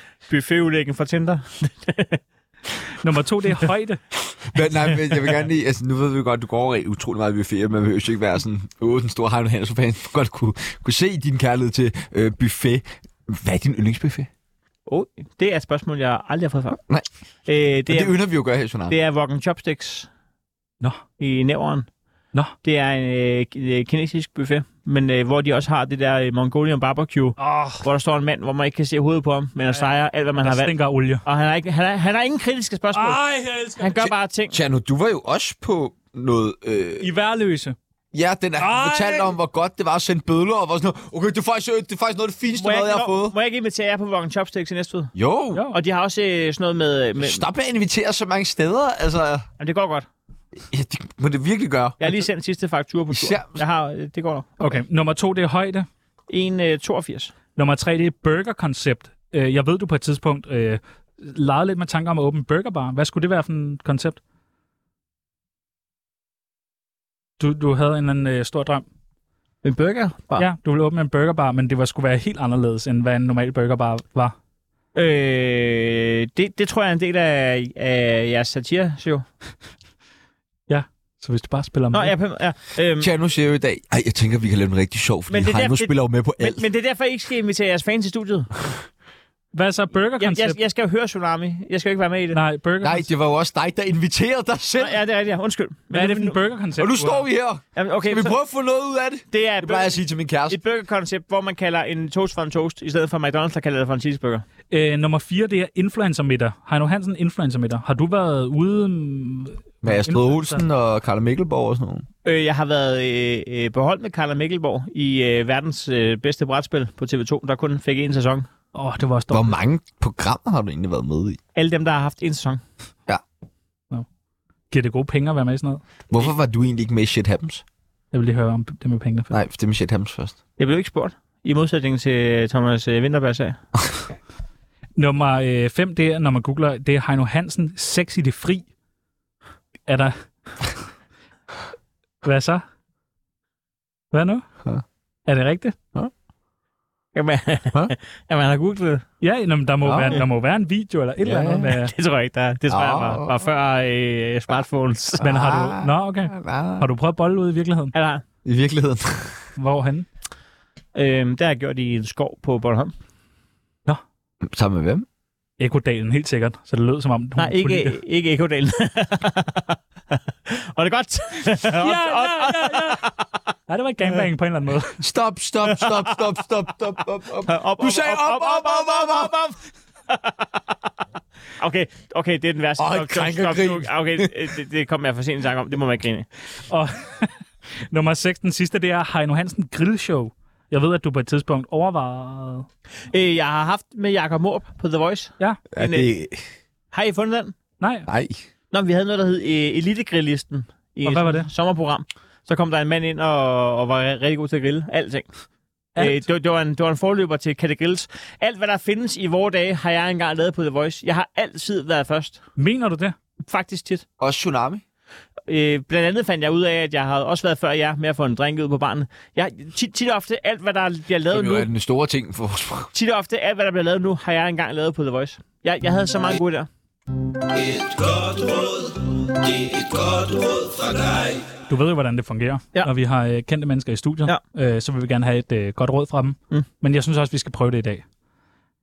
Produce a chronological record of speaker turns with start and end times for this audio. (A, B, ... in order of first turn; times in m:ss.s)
0:00.2-0:02.2 A
0:03.0-0:04.0 B
0:04.4-0:14.3 C
0:14.9-0:16.8 A
0:17.4-0:18.2 A
0:17.9-0:18.9 C
0:18.9-0:20.1 A
0:21.2-0:21.9 A
0:22.6-0:33.2 A
0:27.4-0:27.8 B
0:30.4-0:31.2 B
0:32.9-0:34.0 B
0:33.8-0:34.5 A
0:34.0-0:37.1 C
0:37.0-0:37.8 B
0:38.1-0:43.3 C
0:38.6-0:39.3 B
0:42.6-0:45.1 A
0:45.1-0:45.7 C
0:45.7-0:47.4 A
0:47.2-0:49.4 C
0:49.6-0:50.1 A
0:50.7-0:52.0 C
0:52.0-0:54.8 A
0:53.1-0:53.6 C
0:54.6-0:55.9 B
0:56.3-0:57.3 A
0:57.6-1:04.2 B
1:07.4-1:08.8 B
1:09.6-1:10.5 A
1:10.4-1:14.3 B
1:14.9-1:19.2 A
1:20.7-1:22.1 B
1:21.9-1:23.1 A
1:23.0-1:26.6 C
1:25.3-1:28.5 A
1:29.5-1:30.6 B
1:30.2-1:32.4 A
1:32.3-1:33.1 B
1:32.8-1:35.0 C
1:34.8-1:36.4 A
1:35.9-1:37.2 B
1:36.8-1:40.6 C
1:37.8-1:38.3 A
1:39.3-1:44.4 A
1:44.7-1:50.6 B
1:49.8-1:52.0 C
1:52.2-1:58.5 A
1:58.7-1:59.5 B
1:59.3-2:01.4 C
2:01.5-2:02.6 A
2:04.7-2:05.8 B
2:06.1-2:07.6 C
2:08.1-2:09.3 B
2:09.3-2:10.4 C
2:10.6-2:13.6 A
2:15.0-2:18.6 B
2:19.9-2:20.7 B
2:22.2-2:22.6 B
2:24.1-2:24.4 B
2:25.2-2:25.8 B
2:27.1-2:29.0 A
2:29.2-2:31.9 B
2:29.8-2:30.2 C
2:31.2-2:31.7 C
2:31.7-2:35.2 A
2:32.7-2:33.3 C
2:35.2-2:37.9 B
2:35.2-2:36.9 C
2:37.9-2:38.2 A
2:38.4-2:39.4 C
2:39.6-2:40.1 B
2:40.9-2:42.9 A
2:44.4-2:45.0 C
2:45.6-2:48.0 B
2:47.4-2:53.2 A
2:51.6-2:53.0 B
2:53.7-2:55.0 B
2:55.0-2:59.3 C
2:55.7-2:56.2 A
2:57.4-2:59.6 A
3:01.6-3:06.3 A
3:02.8-3:04.3 C
3:06.7-3:07.3 B
3:07.8-3:12.7 B
3:13.1-3:16.1 A
3:15.7-3:16.4 C
3:16.9-3:17.6 A
3:17.8-3:18.1 B
3:18.1-3:18.4 C
3:18.7-3:25.3 A
3:21.0-3:21.5 B
3:26.0-3:26.2 B
3:26.0-3:32.4 A
3:32.6-3:33.1 B
3:33.4-3:34.0 A
3:34.2-3:34.8 C
3:35.5-3:41.7 A
3:41.3-3:42.9 C
3:42.9-3:46.7 A
3:47.6-3:51.3 C
3:51.6-3:58.0 B